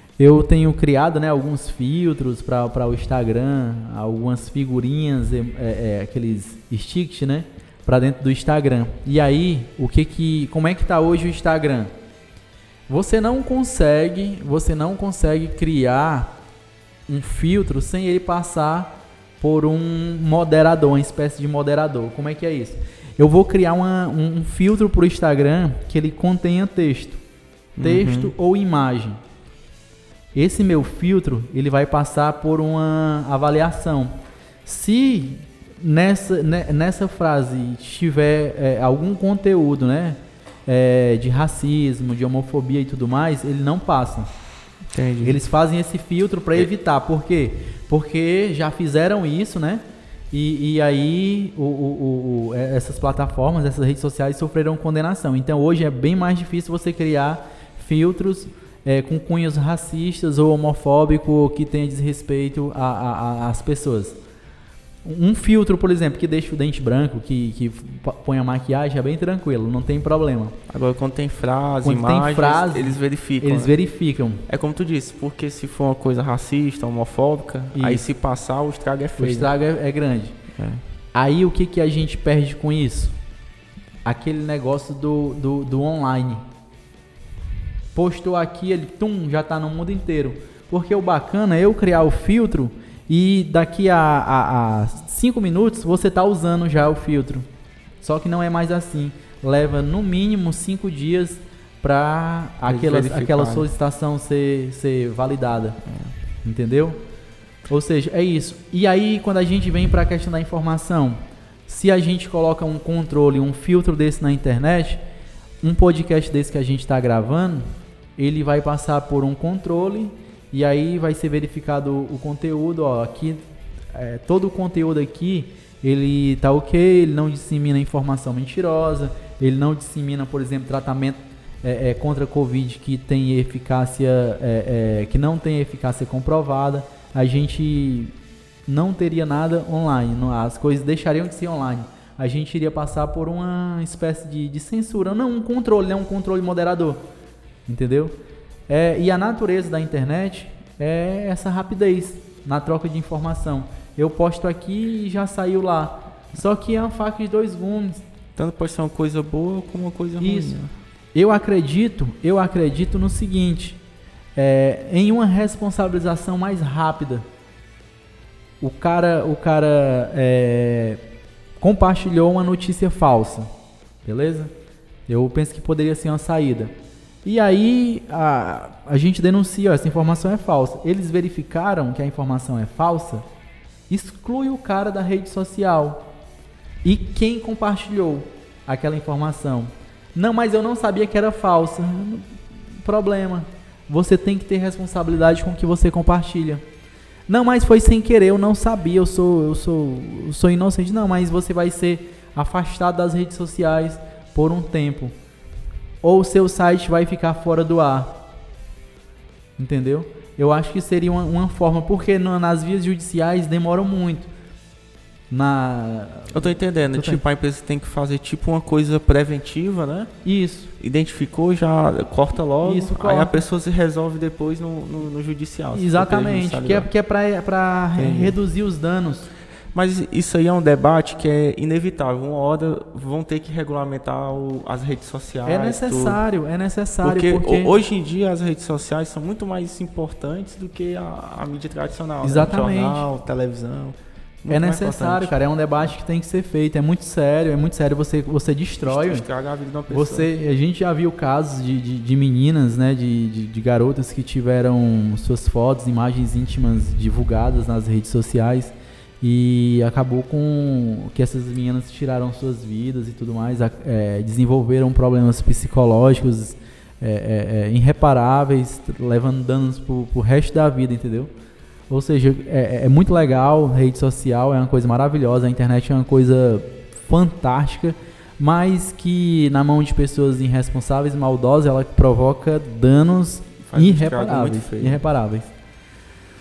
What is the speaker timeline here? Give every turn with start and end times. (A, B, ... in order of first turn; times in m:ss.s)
0:00.2-0:11.9 A
0:12.9-0:16.4 A
0:17.1-0:27.2 A
0:27.8-0:28.3 B
0:27.8-0:29.2 A
0:30.4-0:34.1 A
0:34.6-0:44.3 A
0:44.9-0:45.4 B
0:45.2-1:04.2 A
1:05.0-1:10.6 A
1:10.7-1:13.8 B
1:11.8-1:14.4 A
1:14.5-1:19.5 B
1:17.8-1:18.0 A
1:19.2-1:20.4 A
1:20.6-1:20.8 B
1:21.1-1:23.2 A
1:24.0-1:26.4 A
1:28.0-1:37.4 A
1:38.0-1:45.8 A
1:42.6-1:43.7 B
1:45.9-1:46.1 B
1:46.4-1:47.0 A
1:47.7-1:55.0 A
1:55.6-2:03.4 A
2:03.9-2:18.1 A
2:18.7-2:27.0 A
2:27.7-2:28.1 A
2:28.7-2:38.0 A
2:38.4-2:40.7 B
2:40.2-2:40.6 A
2:41.1-2:43.8 A
2:44.4-2:47.2 A
2:48.6-2:51.0 A
2:51.6-2:53.5 A
2:54.0-2:54.5 A
2:55.1-2:56.7 A
2:57.2-3:03.2 A
3:03.9-3:06.1 A
3:06.8-3:12.3 A
3:12.8-3:16.6 A
3:17.3-3:25.1 A
3:26.0-3:28.2 A
3:29.6-3:34.3 A
3:35.3-3:37.2 A
3:36.3-3:40.1 B
3:40.2-3:40.7 A
3:40.8-3:46.9 B
3:42.6-3:43.4 A
3:45.7-3:49.3 A
3:48.0-3:48.4 B
3:49.7-3:56.2 B
3:55.5-3:57.7 A
3:57.0-4:05.4 B
4:02.2-4:03.1 A
4:04.5-4:09.3 A
4:08.8-4:10.3 B
4:09.9-4:31.3 A
4:31.9-4:45.5 A
4:43.6-4:45.0 B